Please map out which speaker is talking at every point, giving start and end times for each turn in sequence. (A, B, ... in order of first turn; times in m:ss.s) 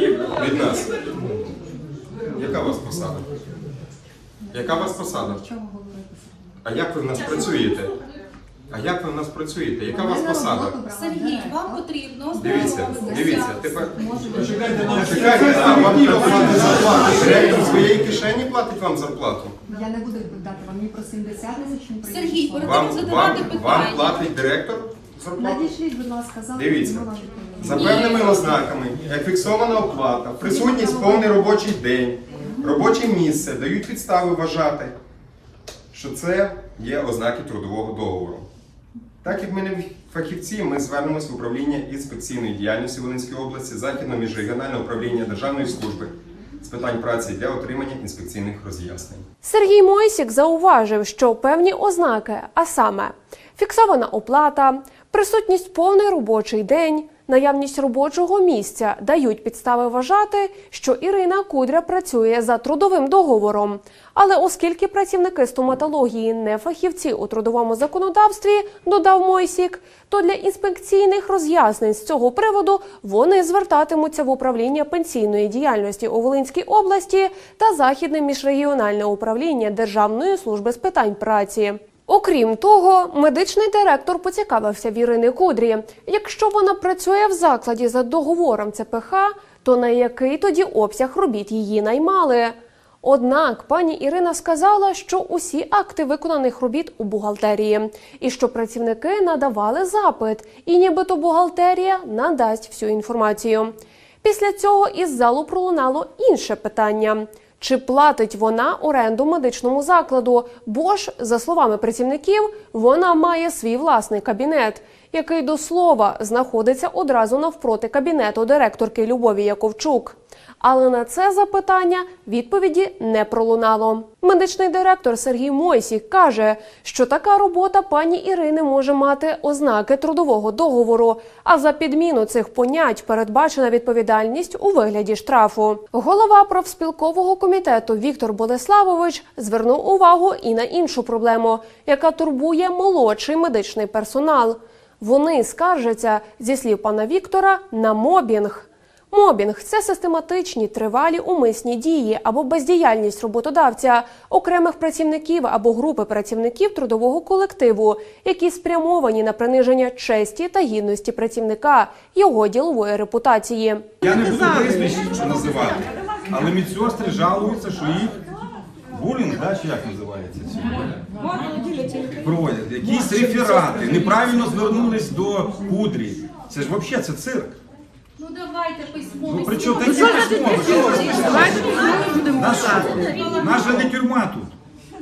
0:00.3-0:00.9 A
0:02.3-0:03.3 A
0:04.5-0:05.5 A
0:05.4-0:06.4 B
0:06.6-0:07.9 A
0:08.7-0:10.8 A
0:09.9-0:11.7 B
0:10.9-0:13.5 C
0:12.4-0:19.6 A
0:12.5-0:15.6 B
0:14.8-0:16.7 D
0:19.7-0:22.7 B
0:22.1-0:24.2 C
0:22.6-0:25.7 A
0:25.4-0:27.7 B
0:26.5-0:34.9 A
0:35.9-0:38.5 A
0:39.2-0:49.2 A
0:49.4-2:43.9 E
2:44.0-2:48.2 D
2:48.9-2:50.9 D
2:52.2-2:57.6 D
2:58.2-3:00.0 C
2:59.2-3:04.5 D